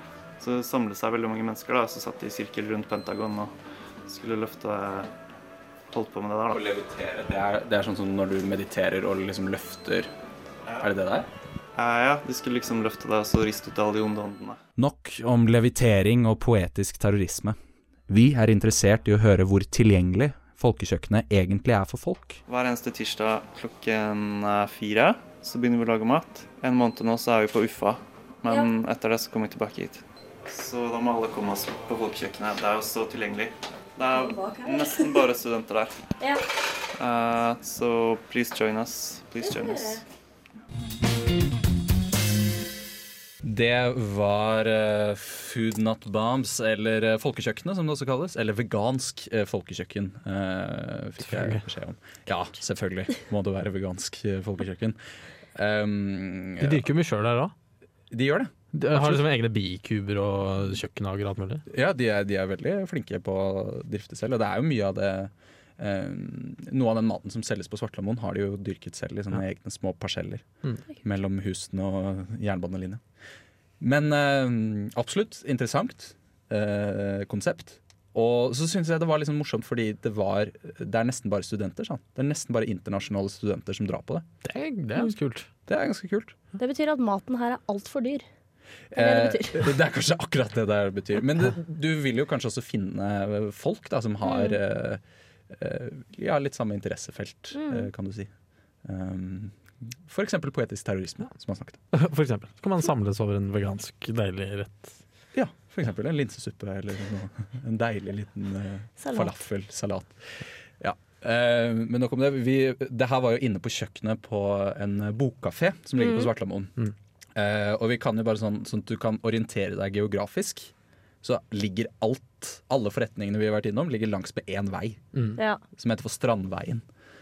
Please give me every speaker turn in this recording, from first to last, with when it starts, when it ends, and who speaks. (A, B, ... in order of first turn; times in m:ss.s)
0:00.4-0:03.5 A
0:04.1-0:05.1 A
0:05.9-0:06.6 A
0:06.5-0:10.1 B
0:10.8-0:11.3 B
0:11.8-0:14.6 A
0:14.8-0:17.6 B
0:18.1-0:22.4 B
0:22.5-0:35.9 A
0:34.1-0:35.2 C
0:37.0-0:40.0 A
0:39.4-0:40.0 C
0:43.4-0:55.0 B
0:51.2-0:51.6 D
0:55.5-0:56.9 B
0:56.6-0:57.5 D
0:58.1-0:59.2 B
0:58.7-1:01.6 D
1:01.7-1:13.0 B
1:13.8-1:24.2 B
1:24.4-1:25.5 D
1:25.7-1:26.4 B
1:26.6-1:28.2 C
1:28.9-1:38.3 B
1:28.9-1:29.7 C
1:34.2-1:34.6 C
1:37.5-1:37.9 C
1:38.8-1:41.8 B
1:41.9-1:45.0 D
1:45.3-1:56.8 B
1:49.0-1:49.4 C
1:56.0-1:56.3 C
1:57.3-2:05.1 B
2:05.7-2:06.8 B